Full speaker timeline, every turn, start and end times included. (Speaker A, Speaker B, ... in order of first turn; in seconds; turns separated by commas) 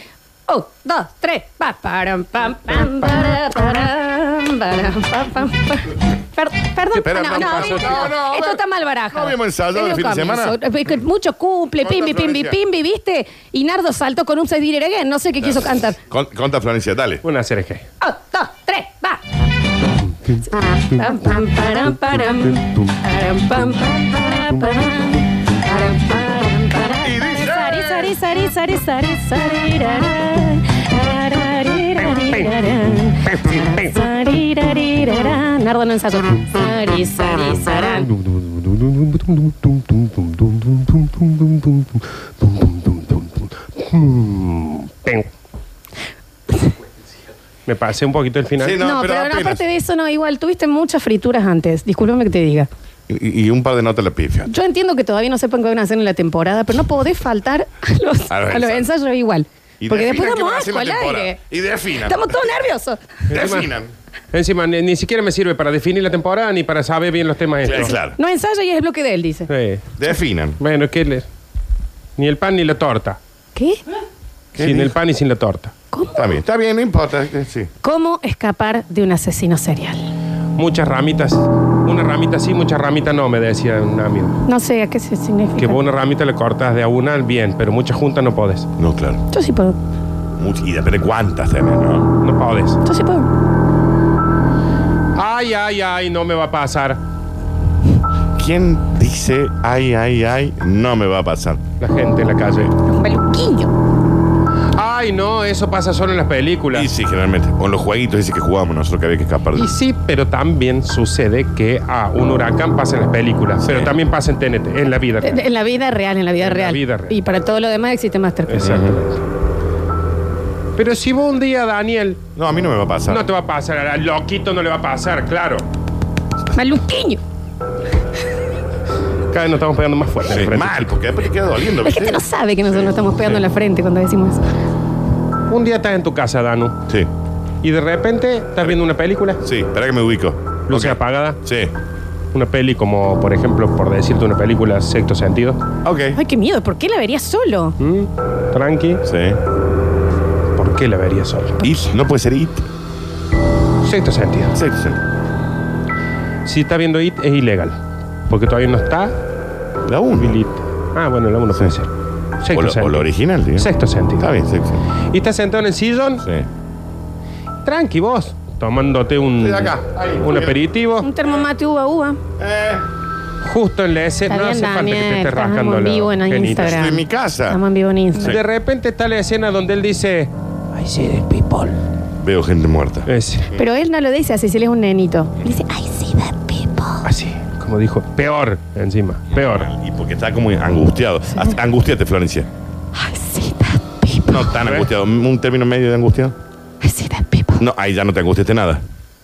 Speaker A: 0.5-16.0, Speaker B: 6.9-10.6, Speaker B: 11.8-12.6, Speaker B: 15.5-17.2, Speaker C: 17.2-17.8, Speaker A: 18.0-19.2, Speaker A: 20.5-38.1, Speaker B: 27.0-28.1, Speaker C: 32.1-32.5, Speaker C: 33.2-33.9, Speaker C: 38.2-45.3, Speaker C: 47.7-48.8, Speaker B: 48.6-49.6, Speaker A: 48.8-52.7, Speaker B: 53.1-54.5, Speaker A: 54.5-61.4, Speaker B: 58.3-58.9, Speaker B: 59.8-62.5, Speaker A: 61.9-63.2, Speaker C: 63.3-63.7, Speaker B: 63.3-63.9, Speaker C: 64.3-68.0, Speaker B: 67.6-68.2, Speaker A: 67.8-69.5, Speaker C: 69.5-69.8, Speaker B: 70.0-70.6, Speaker C: 70.6-71.2, Speaker C: 72.2-73.2, Speaker A: 73.5-73.8, Speaker B: 74.5-75.0, Speaker C: 74.6-75.7, Speaker B: 76.1-77.7, Speaker A: 77.8-80.1, Speaker C: 80.6-84.4, Speaker A: 84.5-85.8, Speaker C: 85.6-88.7, Speaker B: 88.8-89.2, Speaker A: 89.3-89.8, Speaker B: 90.4-92.1, Speaker C: 92.2-92.8, Speaker A: 92.8-93.3, Speaker C: 95.1-97.0, Speaker B: 98.4-101.6, Speaker C: 101.8-102.7, Speaker A: 102.8-103.7, Speaker C: 104.7-106.9, Speaker B: 106.7-109.7, Speaker C: 109.5-115.4, Speaker B: 113.6-114.0, Speaker A: 115.2-118.7, Speaker C: 116.4-117.1, Speaker C: 118.5-119.2, Speaker B: 118.6-119.0, Speaker C: 120.8-122.2, Speaker B: 122.3-123.2, Speaker C: 123.1-125.6, Speaker A: 126.5-127.2, Speaker C: 129.3-130.9, Speaker B: 130.3-132.2, Speaker A: 131.8-134.4, Speaker C: 135.5-136.8, Speaker C: 137.6-139.4, Speaker B: 139.4-141.7, Speaker C: 140.7-141.4, Speaker C: 142.3-145.6, Speaker B: 145.8-146.2, Speaker A: 146.1-147.8, Speaker C: 147.8-149.0, Speaker B: 149.0-149.4, Speaker C: 150.6-151.6, Speaker B: 151.6-152.6, Speaker C: 153.8-154.5, Speaker B: 154.5-155.0, Speaker C: 156.4-157.7, Speaker C: 158.3-159.2, Speaker B: 159.8-160.4, Speaker C: 160.2-161.9, Speaker C: 162.4-163.0, Speaker B: 162.5-164.8, Speaker C: 163.6-164.3, Speaker C: 165.1-166.2, Speaker B: 166.2-166.5, Speaker C: 167.7-171.1, Speaker B: 169.4-170.6, Speaker A: 171.0-172.2, Speaker B: 172.4-172.8, Speaker C: 173.4-176.8, Speaker A: 174.3-178.4, Speaker B: 176.5-177.6, Speaker C: 178.2-181.8, Speaker B: 182.2-183.6, Speaker C: 183.1-183.5, Speaker A: 183.5-187.0, Speaker C: 187.0-189.7, Speaker B: 189.3-192.5, Speaker A: 192.9-194.6, Speaker B: 194.3-196.3, Speaker C: 194.6-194.9, Speaker A: 196.8-197.6, Speaker B: 197.6-198.8